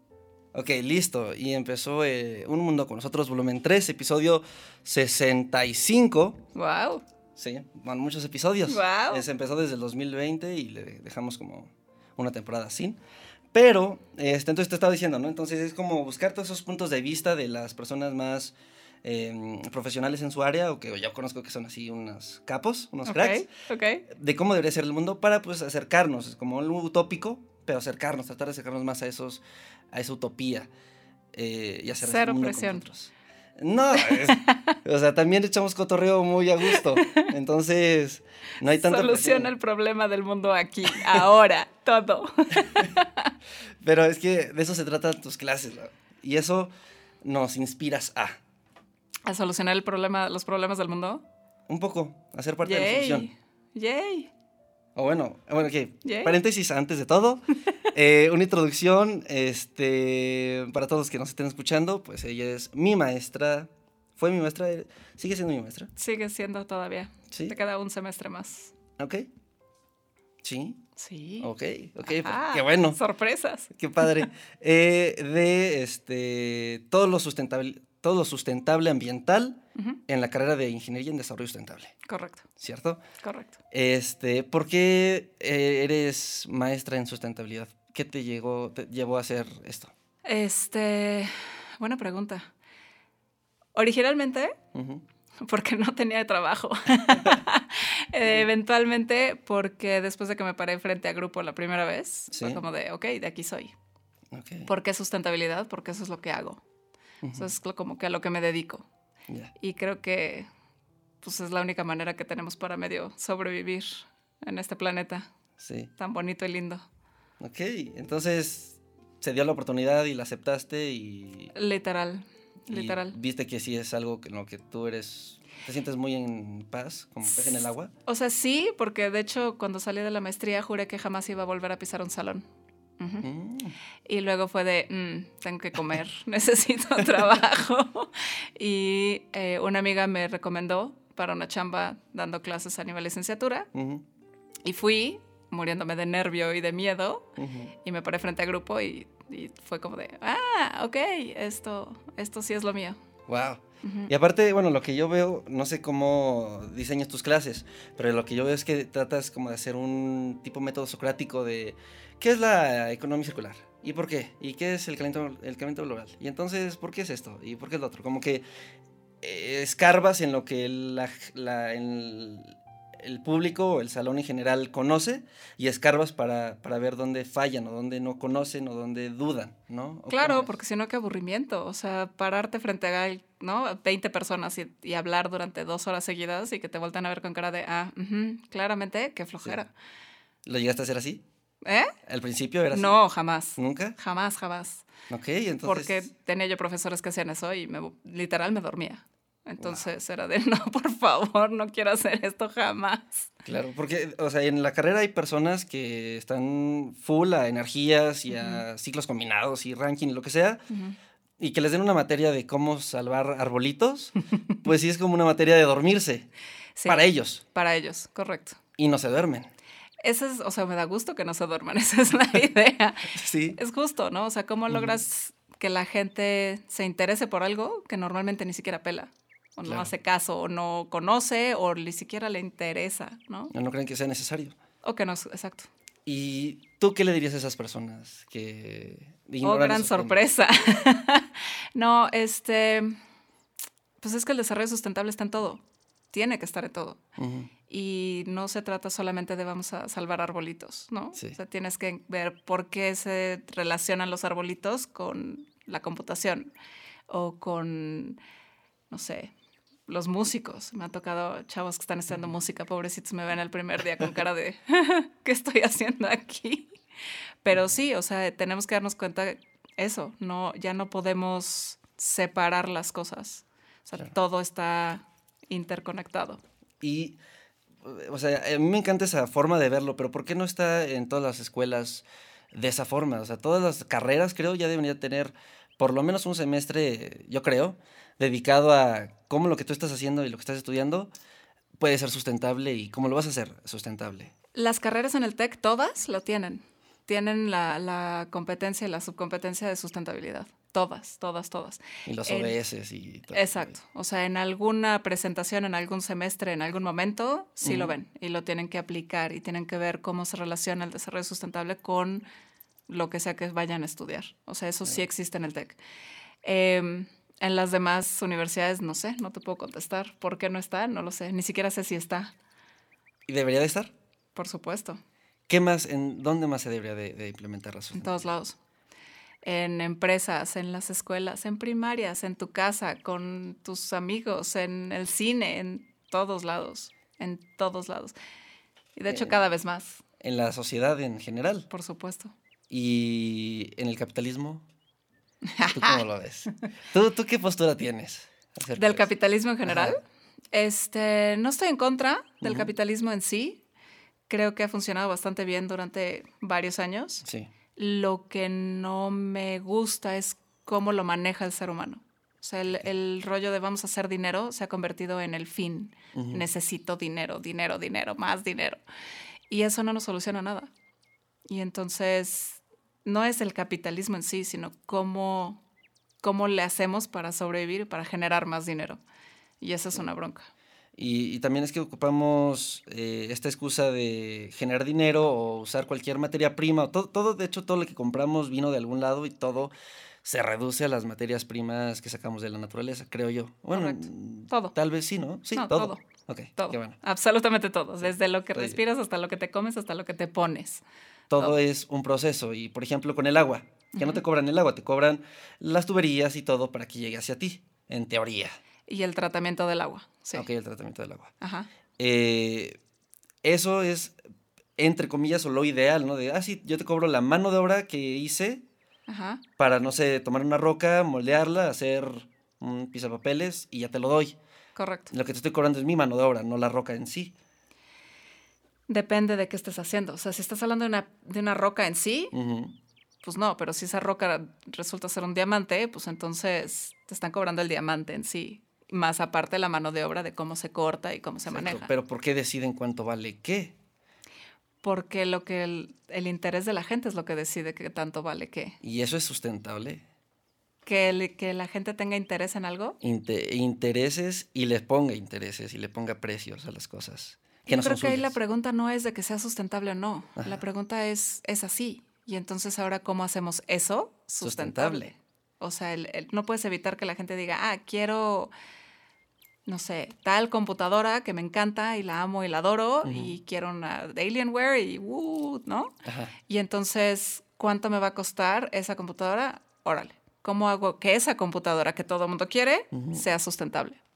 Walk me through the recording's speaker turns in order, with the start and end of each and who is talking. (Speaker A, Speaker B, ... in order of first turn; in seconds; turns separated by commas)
Speaker A: 0.5-6.4, Speaker B: 6.5-7.0, Speaker A: 7.3-13.0, Speaker B: 8.7-9.2, Speaker A: 13.5-23.5, Speaker B: 23.1-24.0, Speaker A: 24.1-30.7, Speaker A: 31.3-39.5, Speaker B: 32.0-32.8, Speaker B: 33.9-34.8, Speaker B: 36.7-37.3, Speaker B: 38.6-43.3, Speaker A: 40.9-41.2, Speaker A: 43.8-46.7, Speaker A: 47.2-48.4, Speaker B: 49.2-51.2, Speaker A: 51.7-53.3, Speaker B: 52.6-54.3, Speaker A: 54.9-65.9, Speaker B: 56.0-56.4, Speaker B: 66.0-68.7, Speaker A: 67.3-67.5, Speaker A: 69.0-69.3, Speaker A: 70.4-70.8, Speaker B: 71.0-71.5, Speaker A: 71.4-73.0, Speaker B: 72.0-74.0, Speaker A: 73.7-81.9, Speaker B: 82.0-82.5, Speaker A: 82.6-83.0, Speaker B: 83.2-83.6, Speaker A: 83.7-89.9, Speaker B: 90.2-92.5, Speaker B: 93.7-94.6, Speaker A: 94.7-95.0, Speaker B: 95.4-103.7, Speaker A: 102.3-102.6, Speaker A: 104.3-104.7, Speaker B: 104.7-106.6, Speaker A: 107.2-107.5, Speaker B: 107.3-108.8, Speaker B: 109.6-110.5, Speaker B: 111.2-115.3, Speaker A: 115.6-115.9, Speaker B: 116.0-116.8, Speaker A: 117.4-121.5, Speaker B: 121.5-123.2, Speaker A: 122.7-127.9, Speaker B: 127.3-132.4, Speaker B: 133.0-133.3, Speaker A: 133.2-133.8, Speaker B: 134.1-143.7, Speaker A: 143.7-144.0, Speaker B: 144.6-147.3, Speaker A: 147.4-147.7, Speaker B: 147.8-153.0, Speaker A: 153.3-168.4, Speaker B: 153.8-154.1, Speaker A: 169.2-180.5, Speaker B: 180.1-189.7, Speaker A: 190.4-191.2, Speaker B: 191.6-191.9, Speaker A: 192.0-193.0, Speaker B: 192.7-194.8, Speaker A: 193.6-193.9, Speaker A: 195.1-196.1, Speaker B: 195.6-203.3, Speaker A: 199.6-199.8, Speaker A: 203.4-210.6, Speaker B: 208.3-208.6, Speaker B: 210.7-210.9, Speaker A: 211.4-216.3, Speaker B: 216.8-218.6, Speaker A: 216.8-217.4, Speaker A: 218.8-219.5, Speaker B: 220.0-233.5, Speaker A: 223.1-223.6, Speaker A: 224.7-225.0, Speaker A: 229.6-229.9, Speaker A: 233.5-234.6, Speaker B: 234.8-235.7, Speaker A: 236.1-240.2, Speaker B: 239.4-243.0, Speaker B: 244.0-247.0, Speaker A: 247.2-247.5, Speaker B: 247.7-256.5, Speaker B: 257.1-258.2, Speaker B: 258.9-259.3, Speaker B: 259.9-266.7, Speaker B: 267.4-276.4, Speaker A: 276.8-277.2, Speaker A: 277.8-291.1, Speaker A: 291.8-294.3, Speaker B: 294.5-302.6, Speaker A: 302.1-303.8, Speaker B: 303.3-312.2, Speaker A: 307.6-307.9, Speaker B: 312.9-315.8, Speaker B: 316.4-322.3, Speaker A: 323.2-323.9, Speaker B: 324.3-325.0, Speaker A: 325.5-328.3, Speaker B: 327.9-328.6, Speaker B: 329.4-338.1, Speaker B: 338.9-340.0, Speaker A: 339.1-339.4, Speaker A: 340.2-341.7, Speaker B: 341.7-342.3, Speaker A: 342.7-344.6, Speaker B: 345.5-346.0, Speaker A: 345.7-349.1, Speaker B: 348.8-350.0, Speaker A: 349.6-349.9, Speaker B: 350.5-353.6, Speaker A: 352.4-352.7, Speaker B: 354.3-357.2, Speaker A: 357.2-357.5, Speaker B: 357.8-368.8, Speaker A: 366.1-366.4, Speaker B: 369.5-370.7, Speaker B: 371.5-375.6, Speaker B: 376.2-379.0, Speaker B: 379.6-380.5, Speaker A: 380.9-389.7, Speaker A: 390.2-397.0, Speaker B: 393.7-394.7, Speaker B: 395.5-396.0, Speaker B: 396.6-400.8, Speaker A: 398.0-398.8, Speaker A: 401.3-408.6, Speaker B: 401.3-401.6, Speaker B: 403.9-404.2, Speaker B: 408.9-410.4, Speaker A: 410.3-411.3, Speaker B: 411.4-411.7, Speaker A: 412.0-412.8, Speaker A: 413.4-414.2, Speaker A: 414.8-418.6, Speaker B: 419.1-419.4, Speaker A: 419.6-424.4, Speaker B: 424.8-425.1, Speaker A: 425.1-427.3, Speaker B: 428.9-432.3, Speaker A: 432.3-432.7, Speaker B: 433.2-441.9, Speaker A: 441.5-443.8, Speaker B: 444.8-448.8, Speaker A: 448.8-450.0, Speaker B: 450.9-453.0, Speaker A: 453.0-458.4, Speaker B: 457.6-468.5, Speaker A: 464.4-465.1, Speaker B: 469.6-484.0, Speaker A: 473.0-473.3, Speaker A: 476.0-476.3, Speaker A: 482.9-483.2